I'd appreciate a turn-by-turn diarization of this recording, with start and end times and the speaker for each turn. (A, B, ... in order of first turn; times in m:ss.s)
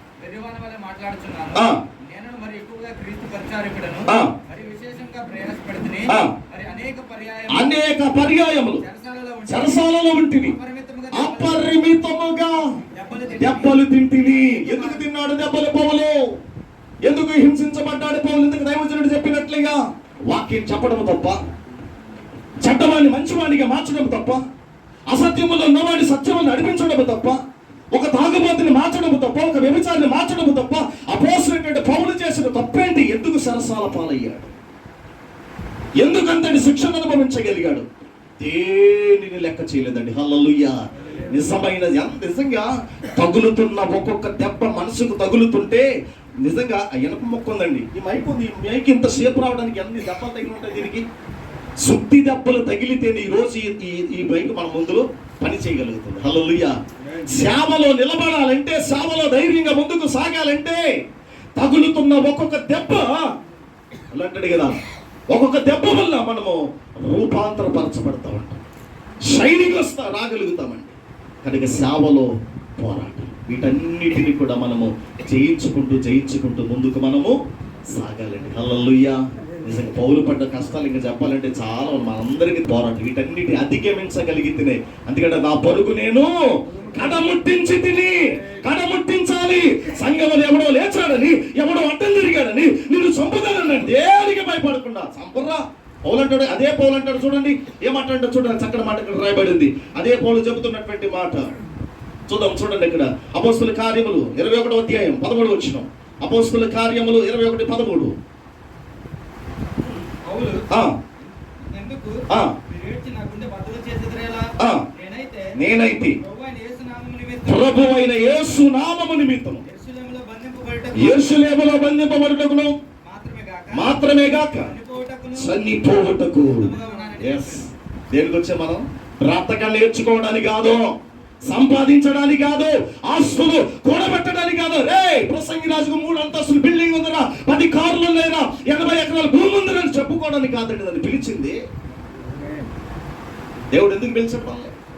0:00.2-0:07.8 A
0:01.5-0:01.8 B
0:04.1-0:04.3 B
0:06.1-0:06.3 B
0:07.5-0:08.8 B
0:08.8-0:09.8 A
0:09.5-0:10.6 B
0:10.4-0:11.7 A
0:11.1-0:12.6 B
0:12.9-0:15.1 A
0:13.4-0:16.2 B
0:17.0-0:21.4 B
0:22.6-0:24.4 B
0:25.1-0:27.4 B
0:27.9-0:34.5 B
0:36.0-0:37.8 B
0:38.4-0:45.8 B
0:46.4-0:51.0 B
0:51.8-1:00.8 B
1:01.6-1:03.2 B
1:04.1-1:04.8 B
1:05.3-1:08.6 B
1:09.2-1:17.4 B
1:17.9-1:41.6 B
1:42.3-1:48.2 B
1:50.1-1:50.7 A
1:50.7-1:51.0 B
1:51.6-1:55.6 A
1:52.3-1:52.5 B
1:54.6-1:54.8 B
1:55.5-1:56.2 B
1:56.2-1:57.8 A
1:57.4-1:59.6 B
1:59.6-2:01.4 A
2:00.9-2:02.7 B
2:03.0-2:05.8 A
2:03.7-2:04.7 B
2:05.3-2:11.0 B
2:06.5-2:07.6 A
2:11.5-2:21.6 B
2:23.7-2:24.7 B